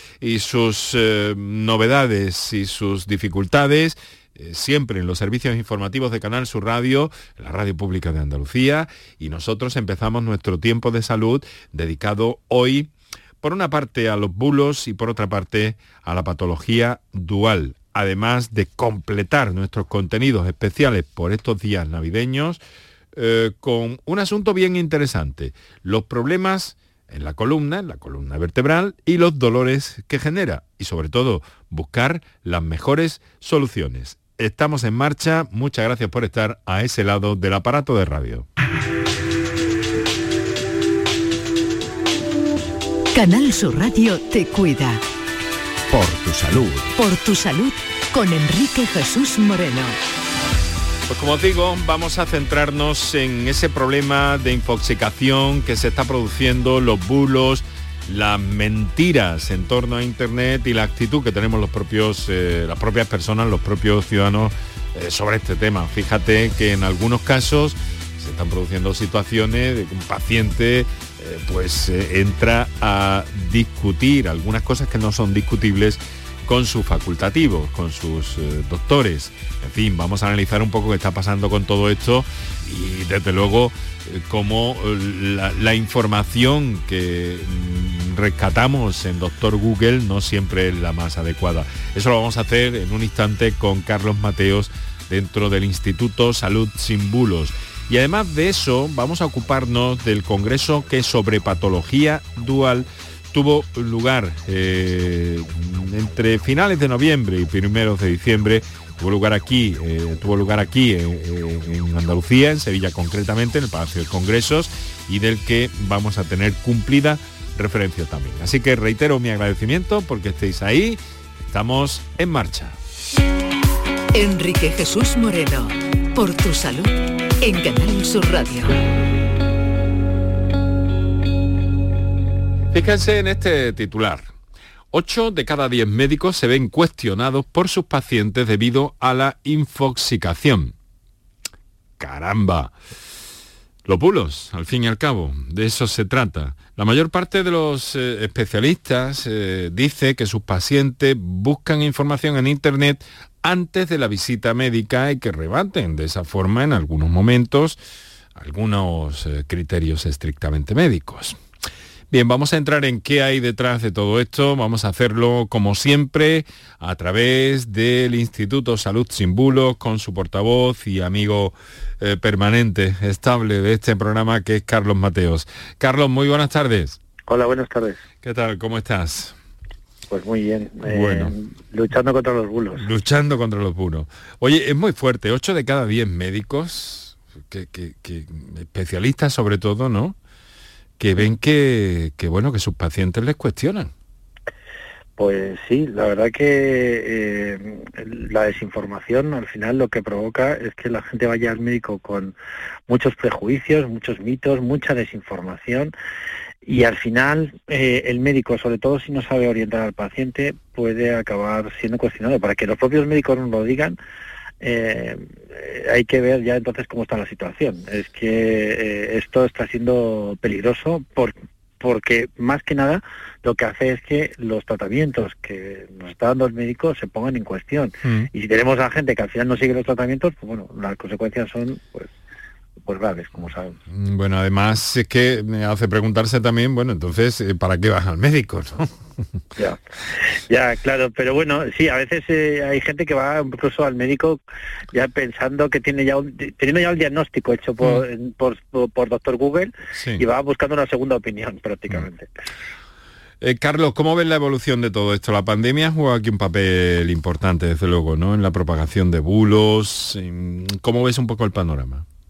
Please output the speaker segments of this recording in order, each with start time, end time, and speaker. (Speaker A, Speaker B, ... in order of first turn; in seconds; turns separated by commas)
Speaker A: 0.2-12.9, Speaker A: 13.4-22.6, Speaker A: 23.1-38.5, Speaker B: 43.1-45.0, Speaker A: 45.9-46.9, Speaker B: 47.0-49.9, Speaker A: 51.1-122.8, Speaker B: 124.1-128.8, Speaker A: 132.7-134.3, Speaker A: 134.9-140.7, Speaker A: 142.0-142.7, Speaker A: 143.8-157.8, Speaker A: 158.3-161.4, Speaker A: 162.1-177.0, Speaker C: 177.3-178.0, Speaker A: 178.2-179.3, Speaker C: 180.1-182.8, Speaker A: 180.8-181.3, Speaker A: 182.8-190.2, Speaker A: 191.0-193.9, Speaker C: 195.2-202.3, Speaker C: 202.9-205.9, Speaker C: 206.6-214.0, Speaker C: 214.6-232.1, Speaker A: 228.0-228.3, Speaker C: 232.8-233.8, Speaker A: 233.9-238.9, Speaker C: 239.6-252.3, Speaker A: 249.9-250.2, Speaker A: 253.4-262.0